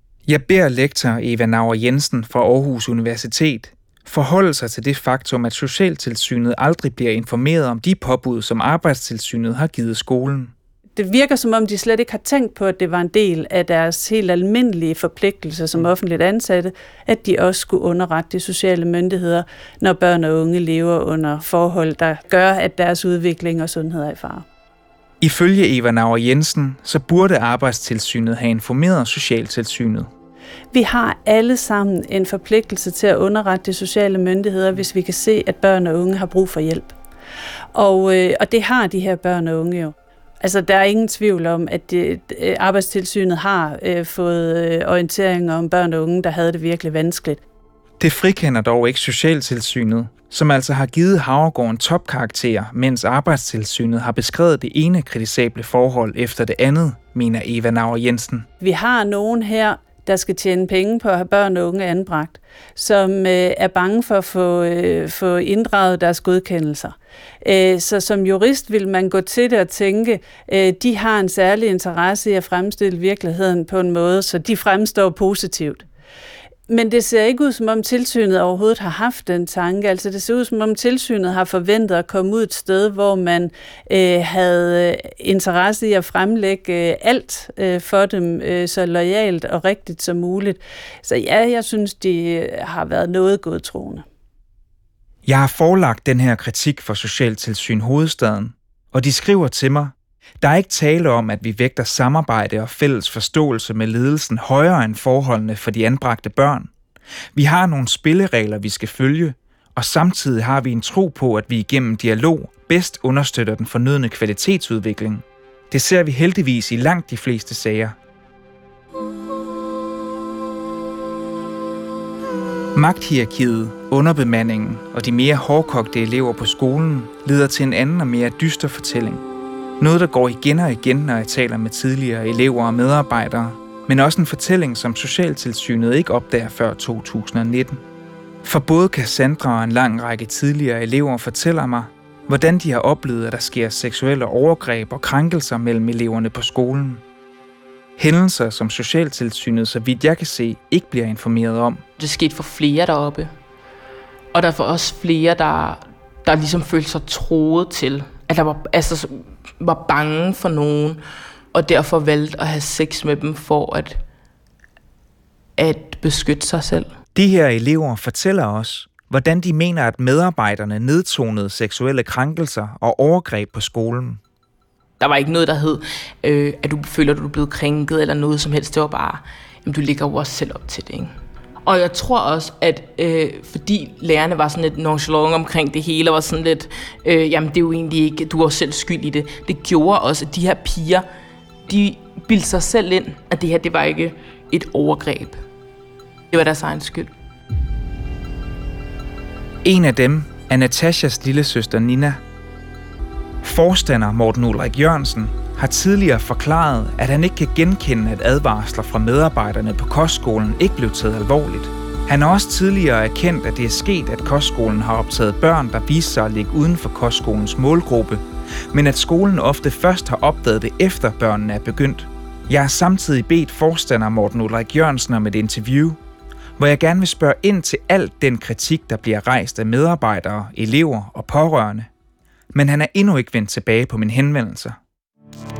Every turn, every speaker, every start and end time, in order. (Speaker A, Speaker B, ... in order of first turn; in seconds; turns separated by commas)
Speaker A: 0.3-10.5, Speaker B: 10.9-24.4, Speaker A: 25.2-30.1, Speaker B: 30.7-36.9, Speaker B: 37.7-47.4, Speaker A: 48.0-58.5, Speaker B: 58.6-75.8, Speaker B: 76.7-94.0, Speaker A: 95.2-106.7, Speaker A: 107.3-118.0, Speaker A: 122.7-129.2, Speaker A: 129.8-137.8, Speaker A: 138.4-147.0, Speaker A: 148.0-151.8, Speaker C: 152.0-153.3, Speaker C: 154.3-164.0, Speaker C: 165.6-166.9, Speaker A: 167.2-174.2, Speaker C: 175.0-191.1, Speaker C: 191.6-195.4, Speaker C: 196.3-197.1, Speaker A: 199.6-202.2, Speaker A: 203.4-226.0, Speaker A: 226.6-231.9, Speaker A: 232.5-234.8